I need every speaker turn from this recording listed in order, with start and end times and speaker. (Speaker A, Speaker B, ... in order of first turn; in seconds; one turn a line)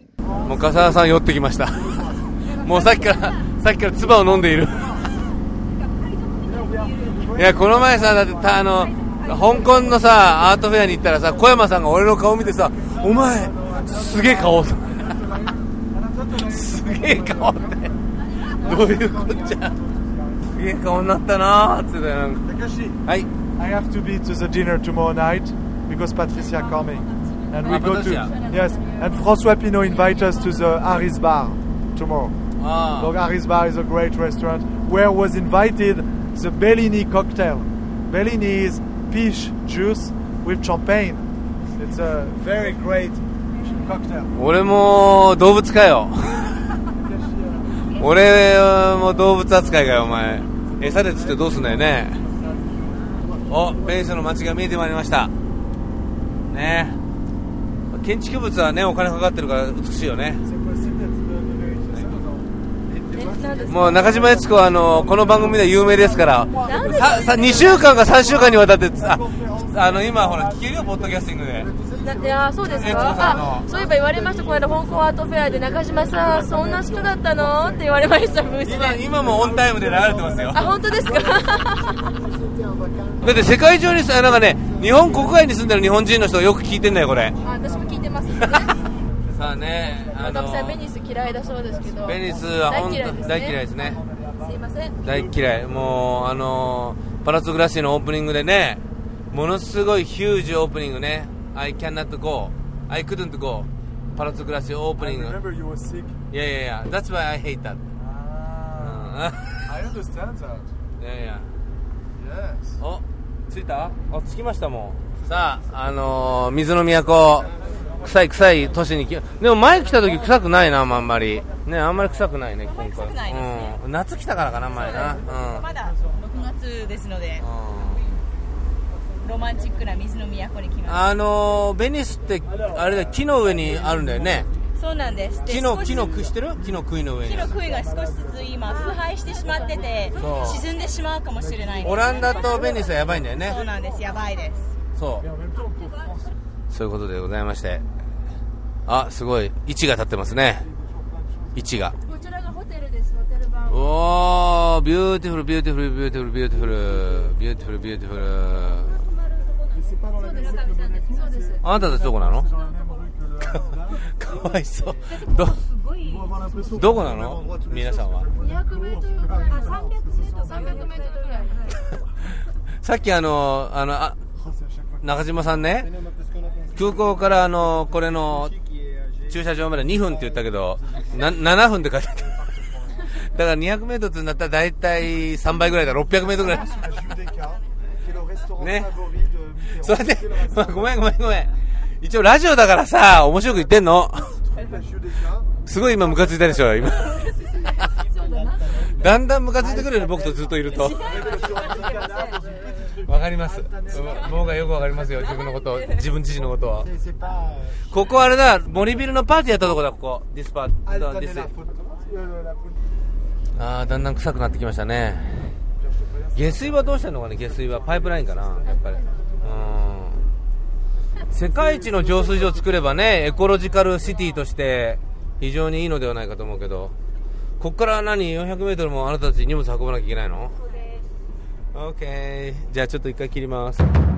Speaker A: 0.3-0.8
Speaker B: 0.4-5.1
Speaker A: 1.8-2.2
Speaker A: 6.4-8.6
Speaker B: 7.3-15.1
Speaker A: 12.7-18.0
Speaker B: 16.4-17.9
Speaker B: 18.5-19.7
Speaker A: 18.5-20.6
Speaker B: 20.5-22.4
Speaker A: 22.4-23.0
Speaker A: 23.6-32.3
Speaker C: 27.6-30.7
Speaker B: 27.6-28.3
Speaker B: 32.6-33.1
Speaker A: 33.0-44.3
Speaker B: 44.3-46.7
Speaker A: 46.9-47.9
Speaker B: 47.9-52.2
Speaker A: 49.1-53.7
Speaker B: 53.5-55.3
Speaker B: 56.5-57.0
Speaker B: 57.9-60.4
Speaker A: 60.4-71.0
Speaker B: 61.9-62.2
Speaker C: 63.1-64.1
Speaker B: 63.7-71.7
Speaker C: 66.6-67.6
Speaker A: 71.8-78.7
Speaker C: 72.0-79.0
Speaker B: 72.8-73.7
Speaker B: 78.6-80.8
Speaker A: 79.2-81.6
Speaker C: 80.5-82.1
Speaker B: 83.2-87.4
Speaker A: 87.4-90.2
Speaker C: 87.4-88.8
Speaker B: 89.3-90.8
Speaker C: 90.1-93.6
Speaker A: 91.2-95.6
Speaker B: 92.0-94.0
Speaker C: 94.4-95.0
Speaker B: 95.0-105.4
Speaker A: 105.0-106.2
Speaker B: 106.3-107.8
Speaker A: 108.0-110.7
Speaker B: 108.8-109.6
Speaker B: 111.0-111.5
Speaker A: 112.2-112.8
Speaker B: 112.8-125.7
Speaker D: 122.6-123.8
Speaker D: 124.6-127.4
Speaker B: 127.4-128.0
Speaker D: 129.2-131.1
Speaker B: 130.8-134.5
Speaker A: 134.1-134.5
Speaker D: 134.8-136.1
Speaker B: 135.4-137.6
Speaker D: 137.2-144.7
Speaker A: 137.6-138.7
Speaker B: 140.1-140.7
Speaker A: 141.7-142.4
Speaker B: 141.8-143.6
Speaker B: 144.9-145.2
Speaker A: 145.2-146.2
Speaker B: 146.7-147.8
Speaker B: 148.8-150.7
Speaker A: 150.7-151.6
Speaker B: 151.6-151.9
Speaker C: 152.1-153.8
Speaker B: 153.7-159.0
Speaker A: 159.7-164.0
Speaker C: 160.2-161.6
Speaker B: 161.6-162.5
Speaker B: 163.5-165.7
Speaker A: 166.0-170.9
Speaker B: 166.7-168.3
Speaker C: 168.4-171.8
Speaker B: 172.8-174.2
Speaker A: 174.4-175.0
Speaker B: 175.0-175.9
Speaker B: 176.7-178.6
Speaker B: 179.2-182.3
Speaker A: 182.2-182.8
Speaker B: 182.9-186.8
Speaker A: 186.3-190.9
Speaker B: 188.6-188.9
Speaker B: 189.7-194.4
Speaker A: 194.5-195.5
Speaker B: 195.6-197.8
Speaker A: 196.3-196.5
Speaker A: 198.1-198.9
Speaker C: 198.3-198.7
Speaker B: 198.8-201.1
Speaker A: 200.8-204.6
Speaker C: 201.1-202.0
Speaker B: 203.0-206.9
Speaker B: 207.8-211.5
Speaker A: 210.8-212.8
Speaker B: 213.5-215.6
Speaker A: 216.0-216.8
Speaker B: 216.3-220.2
Speaker A: 218.1-218.8
Speaker C: 218.7-219.1
Speaker B: 221.3-226.9
Speaker B: 227.6-230.6
Speaker B: 231.7-233.8